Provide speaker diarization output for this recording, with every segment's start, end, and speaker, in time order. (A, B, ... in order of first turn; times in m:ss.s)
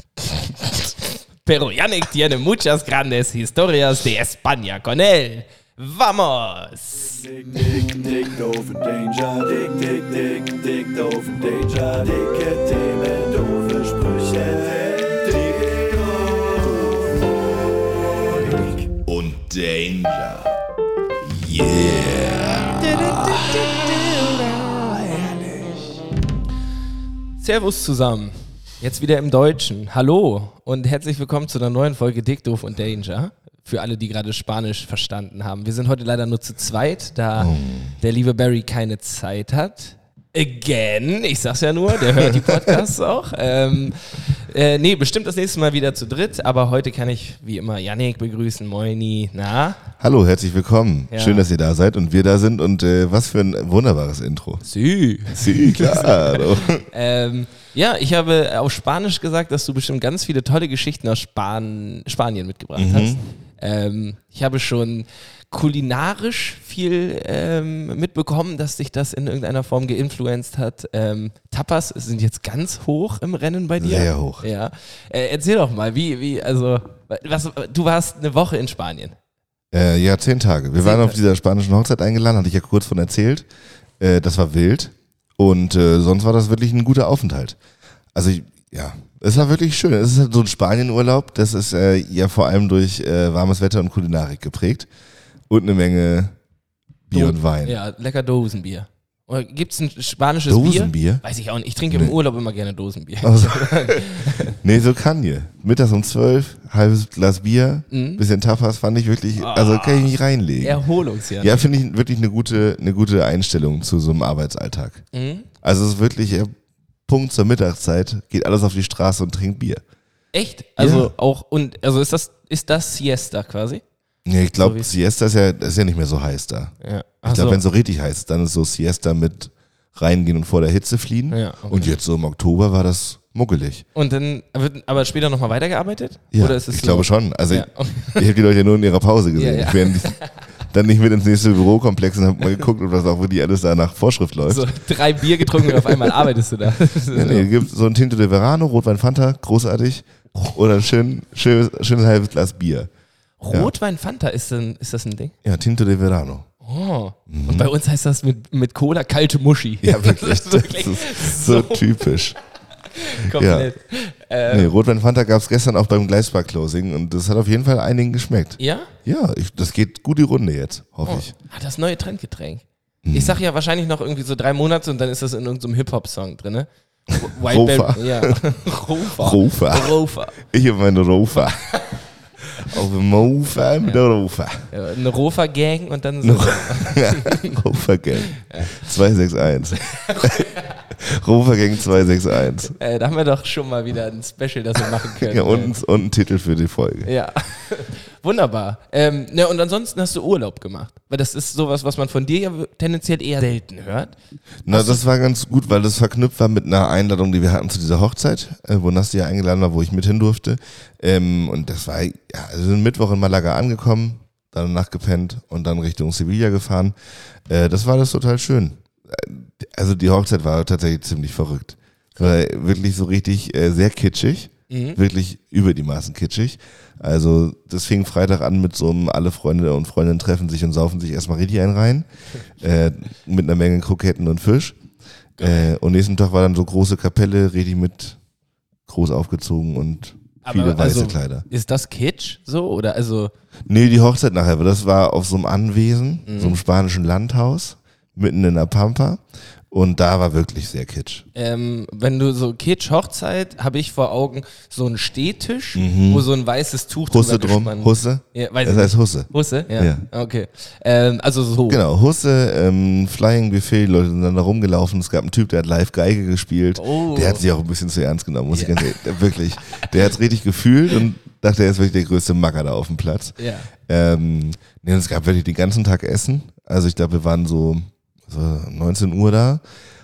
0:00.2-0:07.3 A
0:07.4-0:16.9 B
0:19.0-0:20.5 C
0:21.2-0:25.6 C
0:22.8-0:23.7 A
0:27.4-0:49.8 A
0:37.4-0:38.0 C
0:42.1-0:42.8 C
0:50.0-0:54.6 C
0:51.1-0:51.5 A
0:54.6-1:19.2 A
0:55.3-0:56.9 C
1:02.8-1:03.2 C
1:13.8-1:14.4 C
1:19.7-1:23.5 C
1:20.8-1:21.2 A
1:24.0-1:27.6 C
1:28.1-1:34.9 C
1:35.5-1:36.4 C
1:37.1-1:37.8 C
1:37.1-1:44.6 A
1:40.5-1:41.2 C
1:43.2-1:50.8 C
1:47.9-1:48.2 A
1:49.4-1:50.1 A
1:50.6-1:51.7 A
1:51.4-1:55.0 C
1:55.1-1:55.5 A
1:55.6-1:56.5 C
1:57.1-1:59.8 C
2:00.3-2:03.8 A
2:00.8-2:01.1 C
2:04.2-2:06.7 C
2:04.6-2:04.9 A
2:06.8-2:07.6 A
2:07.3-2:13.8 C
2:11.3-2:11.9 A
2:14.0-2:18.3 A
2:16.3-2:20.2 C
2:19.4-2:20.3 A
2:20.7-2:26.3 C
2:24.5-2:27.5 A
2:27.1-2:32.9 C
2:33.4-2:35.3 A
2:35.4-2:36.5 C
2:36.6-2:42.2 A
2:37.3-2:37.7 C
2:39.8-2:42.4 C
2:42.9-2:44.7 A
2:43.3-2:43.7 C
2:44.5-2:51.3 C
2:48.6-2:48.9 A
2:51.0-3:00.4 A
2:53.0-2:53.4 C
2:57.2-2:58.4 C
2:59.0-3:01.8 C
3:02.6-3:04.7 C
3:04.7-3:07.6 A
3:06.2-3:12.8 C
3:08.3-3:08.8 A
3:09.8-3:10.8 A
3:12.7-3:15.8 A
3:15.3-3:17.1 C
3:17.0-3:24.1 A
3:24.7-3:37.0 C
3:24.7-3:25.0 A
3:37.5-3:52.1 C
3:44.7-3:45.0 A
3:52.6-3:54.8 C
3:55.4-3:55.7 A
3:55.4-3:58.2 C
3:58.9-4:01.4 C
4:00.4-4:03.3 A
4:03.7-4:11.3 C
4:06.3-4:06.6 A
4:11.4-4:21.8 A
4:15.8-4:16.3 C
4:17.1-4:20.0 C
4:21.7-4:39.6 C
4:26.8-4:27.4 A
4:28.5-4:29.0 A
4:33.4-4:33.7 A